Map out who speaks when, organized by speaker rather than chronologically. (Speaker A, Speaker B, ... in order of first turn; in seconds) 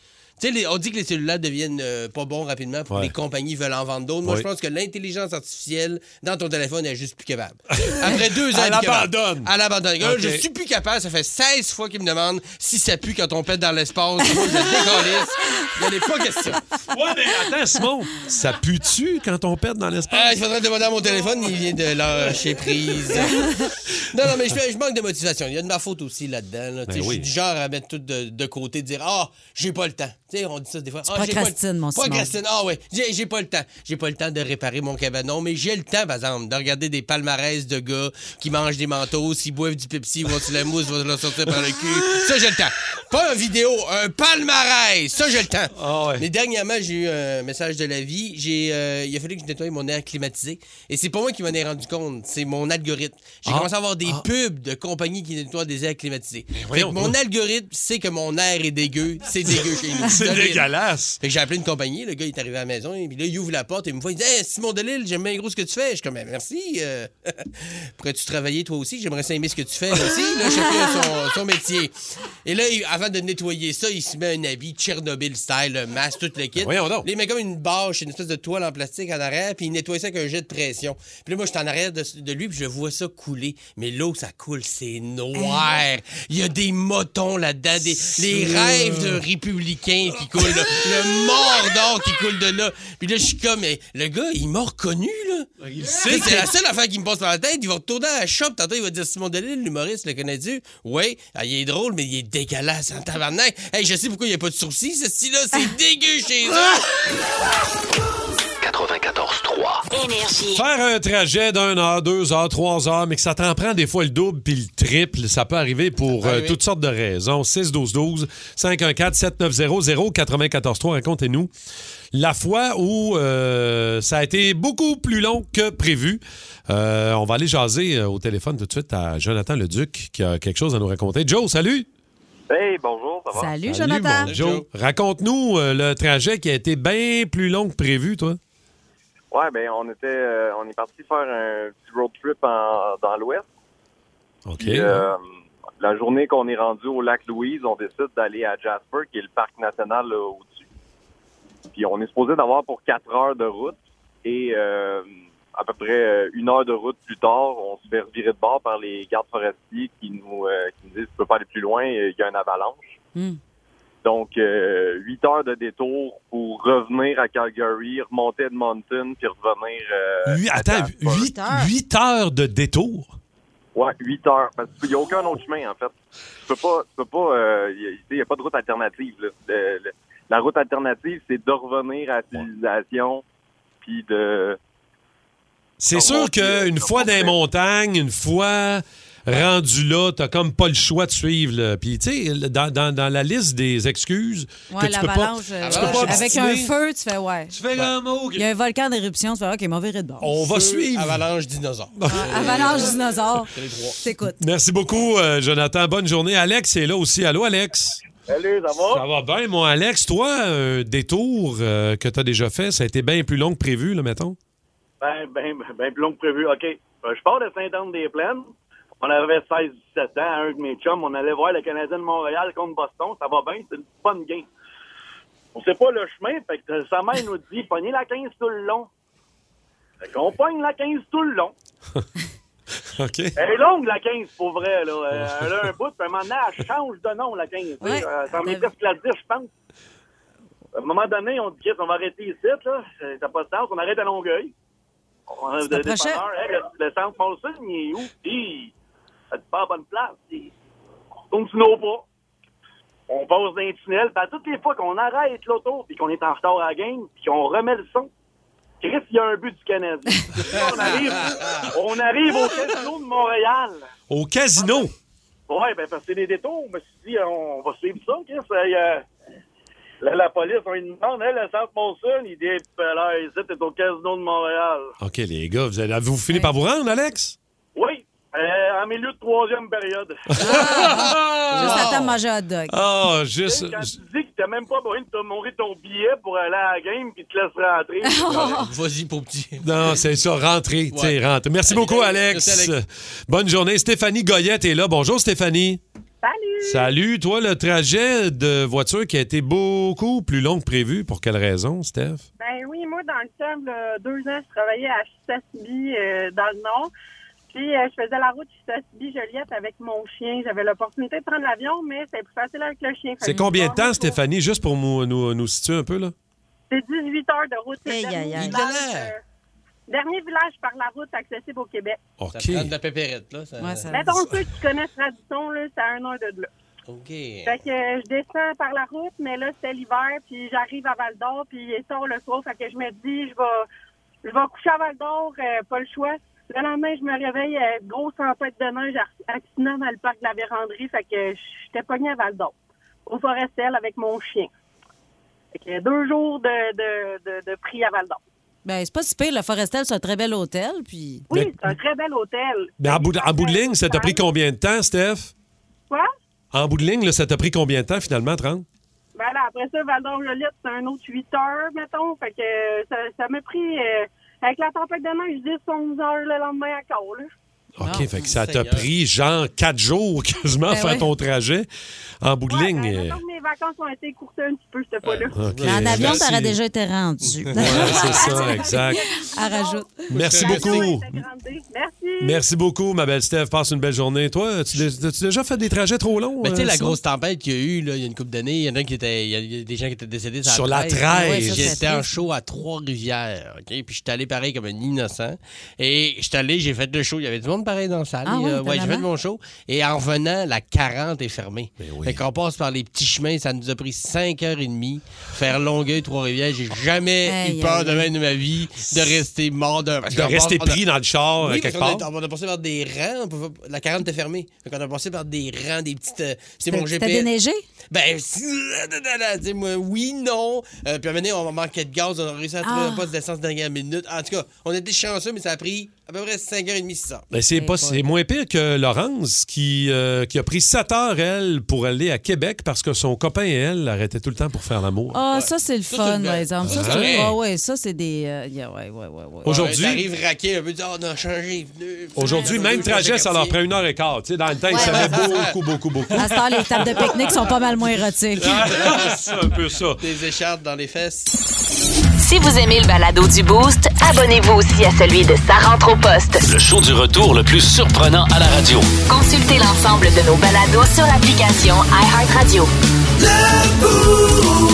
Speaker A: 0.4-16.6, 20.1-60.7, 61.2-71.9, 72.4-95.5, 96.0-106.8, 116.2-116.6, 134.3-134.7, 195.6-196.3, 200.4-204.0, 261.3-261.6, 281.5-282.2, 288.2-290.0, 290.9-292.7, 318.4-319.1, 322.3-323.9, 326.9-327.6, 368.2-368.9, 375.0-376.3, 377.3-378.2, 380.1-380.9, 386.4-410.8, 411.4-417.3, 417.9-427.2, 435.3-437.4, 439.4-443.6, 444.7-445.5, 448.4-451.3
Speaker B: 7.8-10.4, 16.9-20.4, 26.9-27.3, 45.8-46.2, 53.5-54.2, 56.6-57.1, 60.0-61.2, 76.6-77.1, 88.0-89.2, 90.4-90.8, 95.6-96.5, 110.5-121.5, 122.1-131.9, 133.6-138.4, 144.5-145.1, 170.2-173.1, 185.8-196.7, 197.5-198.4, 200.2-201.2, 202.0-202.8, 204.4-208.0, 208.9-214.4, 232.9-233.3, 235.1-235.5, 264.1-264.9, 275.0-277.4, 280.4-281.9, 282.7-283.9, 289.6-295.8, 296.6-302.2, 313.2-316.1, 322.2-322.7, 351.3-351.8, 352.8-355.3, 356.5-358.6, 367.8-371.7, 372.2-373.2, 375.3-376.5, 377.6-379.0, 380.1-381.2, 382.2-387.0, 390.4-391.8, 401.8-402.2, 410.1-412.1, 427.3-435.2, 436.6-437.3, 439.4-440.0, 442.1-447.1, 448.4-450.0
Speaker C: 31.1-32.3, 85.3-85.8, 133.3-134.3, 171.1-171.7, 194.7-197.6, 198.3-200.3, 202.1-204.4, 237.8-238.7, 245.7-246.2, 280.4-282.8, 288.0-288.7, 317.9-318.6, 323.6-324.1, 348.6-351.2, 367.8-368.3, 370.7-371.1, 375.6-379.9, 391.1-392.1, 398.2-399.1, 407.2-408.1, 416.7-417.6, 422.6-423.1, 427.5-428.0, 435.1-439.6, 442.2-442.5, 444.7-445.1, 446.1-448.4
Speaker D: 108.6-109.8, 456.4-458.9
Speaker E: 109.9-110.6, 452.2-456.4, 459.1-462.7
Speaker F: 132.5-133.5, 139.3-143.4, 144.6-145.2, 145.8-150.7, 151.7-162.9, 164.0-171.2, 173.7-175.9, 176.5-183.2, 183.8-184.6, 185.9-187.3
Speaker G: 208.3-209.0, 215.0-218.5, 219.0-224.5, 225.5-228.9, 230.0-231.5, 233.4-239.5, 240.7-244.5, 245.3-248.7, 249.3-250.5, 251.3-252.0, 253.1-258.1, 258.8-263.9, 264.6-264.9, 265.5-269.0, 270.0-274.9, 277.8-280.4, 283.5-288.5
Speaker H: 296.2-296.9, 302.4-306.9, 307.5-314.2, 316.7-319.2, 319.9-322.0, 323.9-326.5, 327.4-333.6, 334.2-342.5, 343.1-344.5, 345.6-348.2, 351.3-354.2, 359.1-367.3, 372.5-375.4, 377.9-382.4